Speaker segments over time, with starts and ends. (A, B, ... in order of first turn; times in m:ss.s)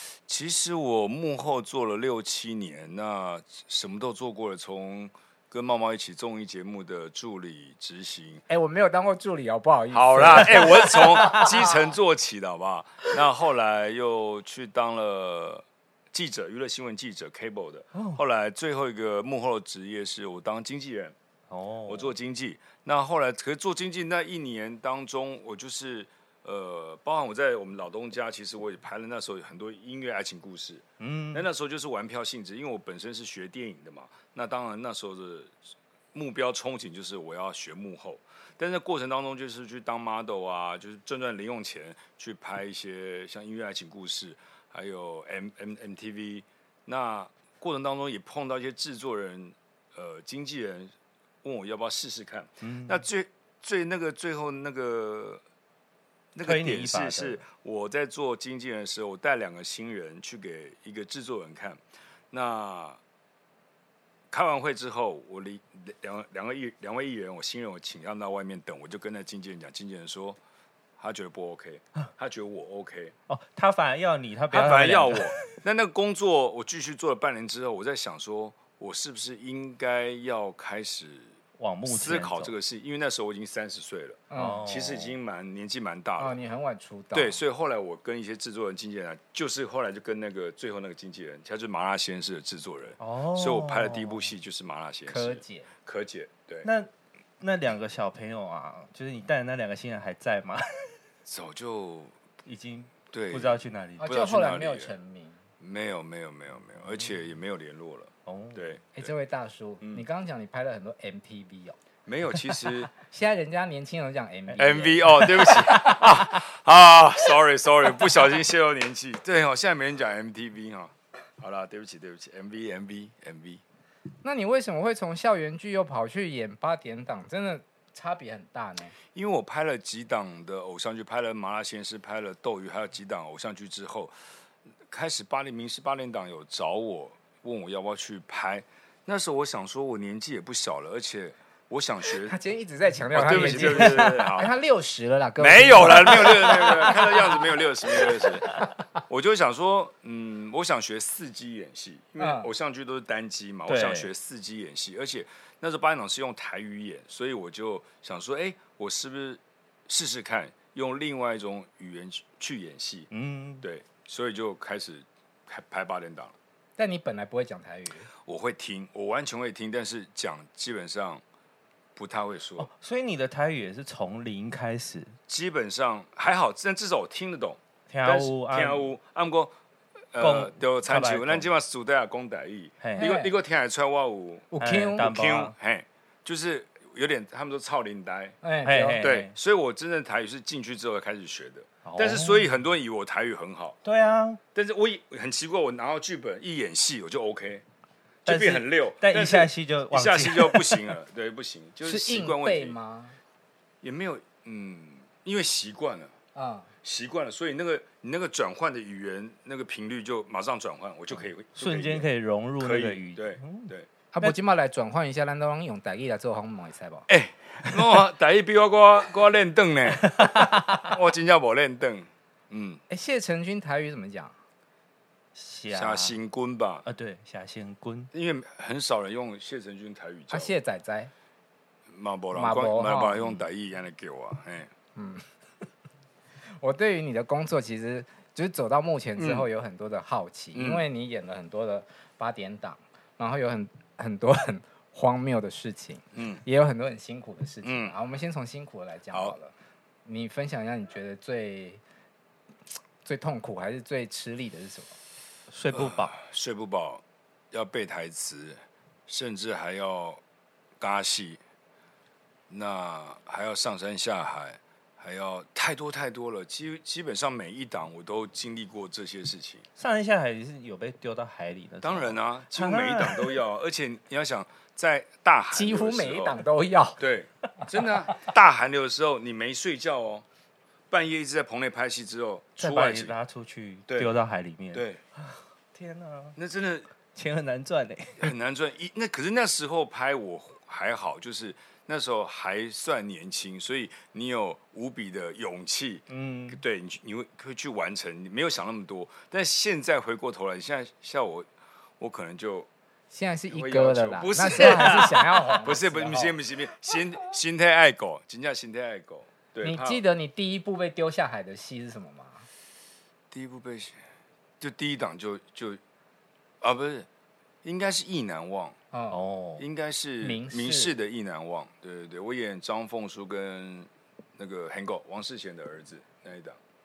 0:00.2-0:08.4 A
0:08.5-0:11.5 B
0:09.9-0:21.2 A
0:17.9-0:18.2 C
0:21.5-0:22.1 C
0:21.9-0:35.6 A
0:31.0-0:31.4 C
0:36.1-0:55.4 A
0:52.6-0:53.0 C
0:56.3-1:01.8 A
0:56.4-0:57.4 C
1:02.3-1:03.0 A
1:04.3-1:10.4 A
1:11.0-1:13.1 A
1:13.3-1:15.4 C
1:14.5-1:21.3 A
1:21.6-1:22.5 C
1:21.9-1:26.4 A
1:24.3-1:24.6 B
1:24.3-1:25.2 C
1:26.2-1:27.4 B
1:27.1-1:36.7 A
1:33.0-1:34.2 C
1:35.1-1:35.7 B
1:36.6-1:36.9 C
1:37.4-1:40.9 C
1:41.2-1:42.1 A
1:42.4-1:44.1 C
1:43.1-1:44.9 A
1:44.0-1:45.4 B
1:45.6-1:49.1 A
1:48.2-1:48.6 C
1:48.9-1:51.8 B
1:52.0-1:52.9 A
1:53.0-1:55.5 B
1:54.6-2:03.6 A
2:04.2-2:08.9 B
2:09.1-2:14.1 A
2:14.9-2:22.4 A
2:22.2-2:27.4 B
2:23.1-2:24.5 A
2:23.2-2:24.3 C
2:25.4-2:28.5 A
2:29.1-2:43.1 A
2:32.2-2:32.5 B
2:33.7-2:34.1 C
2:43.1-2:43.6 C
2:43.6-2:46.3 A
2:46.8-2:48.1 B
2:48.2-2:51.2 A
2:51.9-2:52.7 A
2:52.6-2:55.2 C
2:55.3-2:59.5 A
2:57.9-2:58.9 C
3:00.1-3:08.4 A
3:00.2-3:01.5 C
3:02.8-3:03.1 C
3:03.0-3:03.3 B
3:04.5-3:05.1 B
3:04.6-3:05.5 C
3:08.4-3:09.1 B
3:08.6-3:09.3 C
3:09.0-3:13.8 A
3:11.8-3:12.5 C
3:13.8-3:14.4 C
3:14.5-3:17.6 A
3:18.2-3:22.8 A
3:18.2-3:20.9 C
3:21.8-3:23.2 B
3:23.8-3:26.1 A
3:26.3-3:26.7 B
3:26.8-3:32.1 A
3:31.5-3:33.7 C
3:32.6-3:33.9 A
3:34.1-3:37.1 B
3:37.1-3:42.8 A
3:40.1-3:40.8 C
3:42.9-3:44.3 B
3:45.3-3:46.1 C
3:45.7-3:46.8 A
3:46.8-3:48.1 C
3:48.1-3:50.6 A
3:50.3-3:51.1 B
3:51.9-3:54.7 A
3:52.3-3:53.2 B
3:54.9-3:55.2 B
3:56.5-4:09.5 B
3:59.2-3:59.5 A
4:00.5-4:00.8 A
4:06.1-4:06.4 A
4:07.6-4:07.9 A
4:10.0-4:11.8 B
4:13.0-4:15.0 B
4:15.5-4:16.1 C
4:15.7-4:20.2 A
4:20.8-4:21.4 A
4:22.5-4:29.6 A
4:29.8-4:33.4 C
4:31.8-4:36.4 A
4:35.5-4:37.0 B
4:37.0-4:40.2 A
4:40.9-4:43.2 A
4:42.6-4:46.4 C
4:44.7-4:45.0 A
4:46.4-4:46.9 A
4:47.1-4:48.3 C
4:48.2-5:02.7 A
4:56.1-4:56.6 C
5:03.1-5:06.4 B
5:03.5-5:10.0 A
5:04.5-5:05.2 C
5:09.6-5:12.5 B
5:13.3-5:14.0 A
5:14.6-5:15.8 A
5:16.6-5:17.1 A
5:17.6-5:18.8 A
5:18.9-5:19.2 B
5:19.1-5:19.6 C
5:19.6-5:26.6 A
5:20.2-5:20.9 B